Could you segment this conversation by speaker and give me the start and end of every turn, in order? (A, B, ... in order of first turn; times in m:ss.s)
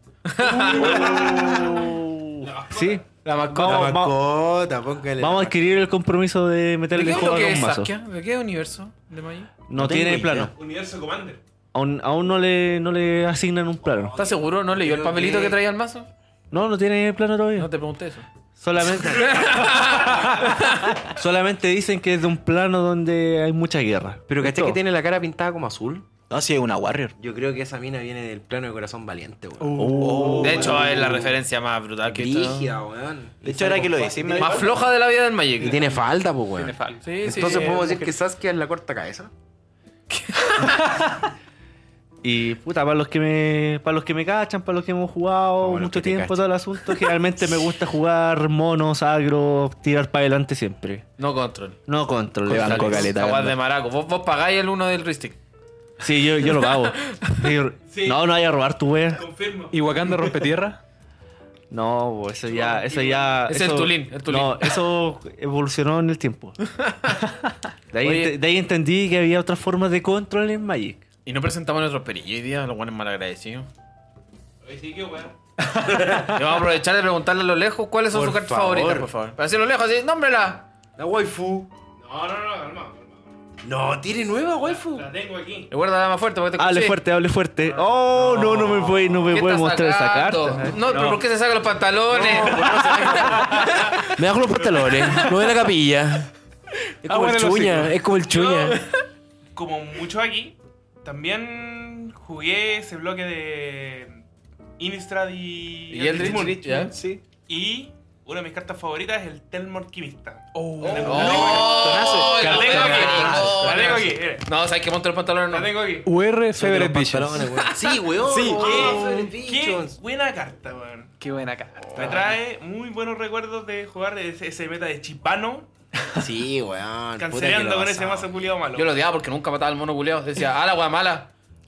0:00.3-0:01.1 A
0:00.6-0:03.0 B
0:00.7-0:04.2 C
0:00.8-0:01.7 D
0:03.2-0:04.0 A
0:03.6-0:05.6 D
0:05.2-0:07.9 C
0:06.9-0:09.5 A
0:09.7-0:10.5 C
0:09.8-0:10.5 E
0:10.2-0:11.4 B
0:11.7-0:14.2 C
0:13.9-0:15.6 D
0:14.2-0:16.1 A
0:16.5-0:17.7 C
0:17.6-0:18.2 A
0:18.6-0:19.6 C
0:19.1-0:20.9 A
0:21.1-0:24.8 C
0:24.3-0:26.1 D
0:26.3-0:27.2 E
0:27.2-0:31.3 D
0:29.6-0:30.5 F
0:29.7-0:30.8 C
0:30.0-0:31.2 E
0:30.4-0:32.8 A
0:32.1-0:34.4 D
0:33.4-0:34.8 E
0:34.4-0:35.8 A
0:34.4-0:34.7 B
0:35.6-0:39.3 D
0:36.6-0:37.1 F
0:37.0-0:37.9 A
0:40.1-0:40.8 A
0:42.2-0:51.1 C
0:45.6-0:46.5 D
0:51.2-0:51.8 A
0:51.9-0:53.2 C
0:52.5-0:53.6 E
0:52.5-0:55.4 A
0:56.0-0:59.2 C
0:56.5-0:57.4 A
0:57.9-0:58.3 B
0:59.1-0:59.8 B
0:59.7-1:00.8 F
1:01.7-1:06.6 C
1:02.4-1:03.4 B
1:03.5-1:04.8 A
1:06.7-1:07.2 A
1:07.9-1:11.0 C
1:08.0-1:08.4 A
1:11.3-1:13.7 A
1:14.6-1:15.4 B
1:15.8-1:16.4 D
1:16.0-1:20.7 A
1:18.1-1:19.1 D
1:21.0-1:21.7 D
1:22.0-1:23.3 B
1:23.6-1:25.1 D
1:24.6-1:25.7 B
1:25.7-1:27.0 A
1:26.6-1:30.8 C
1:28.3-1:34.2 A
1:30.8-1:31.2 F
1:32.1-1:36.3 D
1:32.2-1:33.8 B
1:37.0-1:38.8 D
1:37.1-1:38.0 F
1:38.2-1:38.8 B
1:39.6-1:44.2 B
1:44.8-1:46.9 B
1:45.9-1:47.0 A
1:46.1-1:47.2 E
1:47.5-1:54.5 B
1:50.6-1:51.0 F
1:50.8-1:53.8 E
1:51.0-1:55.8 A
1:52.8-1:53.4 D
1:55.5-1:56.1 B
1:56.0-1:57.6 F
1:56.6-2:00.0 D
1:57.6-1:58.0 A
1:58.2-2:01.1 B
2:01.2-2:02.4 F
2:01.8-2:02.3 A
2:01.9-2:05.7 B
2:06.2-2:08.3 D
2:07.2-2:09.0 B
2:08.8-2:11.3 A